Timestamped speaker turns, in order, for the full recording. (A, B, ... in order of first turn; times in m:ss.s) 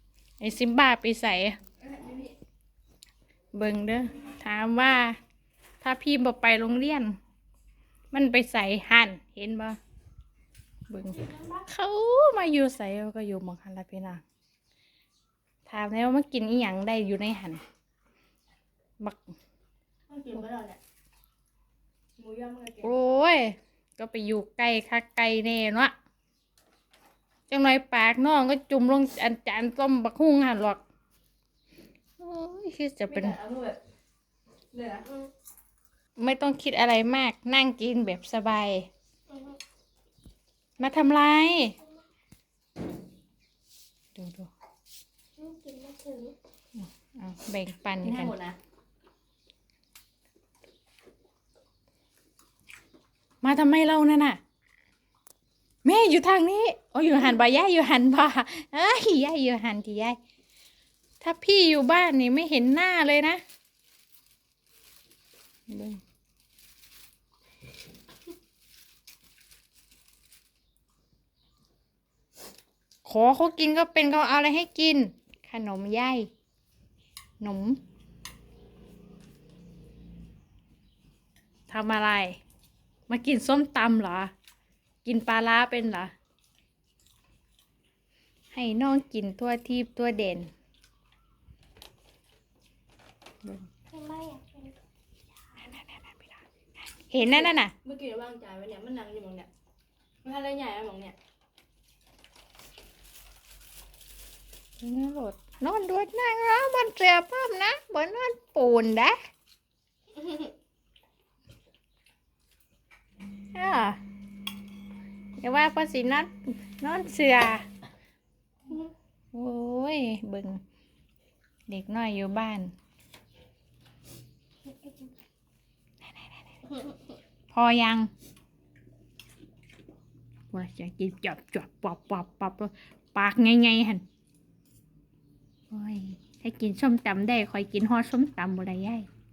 0:00.4-0:01.6 A
0:01.8-0:02.3 B
0:03.5-0:05.2 A
0:05.8-0:07.2 A
0:08.1-0:09.8 A
0:10.9-0:14.2 A
0:15.6-0:17.6 A
0:19.0-0:19.3 A
0:20.1-0:20.8 B
0:22.2-0:22.9 B
0:22.8-0:25.9 A
0:27.5-0:30.8 A
0:32.2-0:33.4 A
0:33.1-0:33.8 B
0:34.7-0:35.3 B
0:36.2-0:38.9 A
0:39.3-0:39.6 C
0:40.8-0:41.8 A
0:44.1-0:44.5 A
0:45.4-0:46.3 C
0:46.8-0:48.3 A
0:48.0-0:48.6 B
0:53.4-0:54.4 A
0:55.8-1:00.2 A
1:01.2-1:03.4 A
1:05.7-1:06.0 A
1:13.0-1:16.3 A
1:17.4-1:17.8 A
1:21.7-1:22.4 A
1:23.1-1:24.3 A
1:25.0-1:26.1 A
1:28.5-1:30.5 A
1:33.9-1:34.8 C
1:35.6-1:37.7 A
1:37.8-1:39.5 B
1:40.2-1:41.2 B
1:44.8-1:49.2 A
1:53.5-1:54.0 A
1:55.4-1:57.6 A
1:59.3-2:00.6 A
2:01.7-2:02.7 A
2:07.5-2:08.1 A
2:10.5-2:14.0 A
2:15.7-2:19.1 A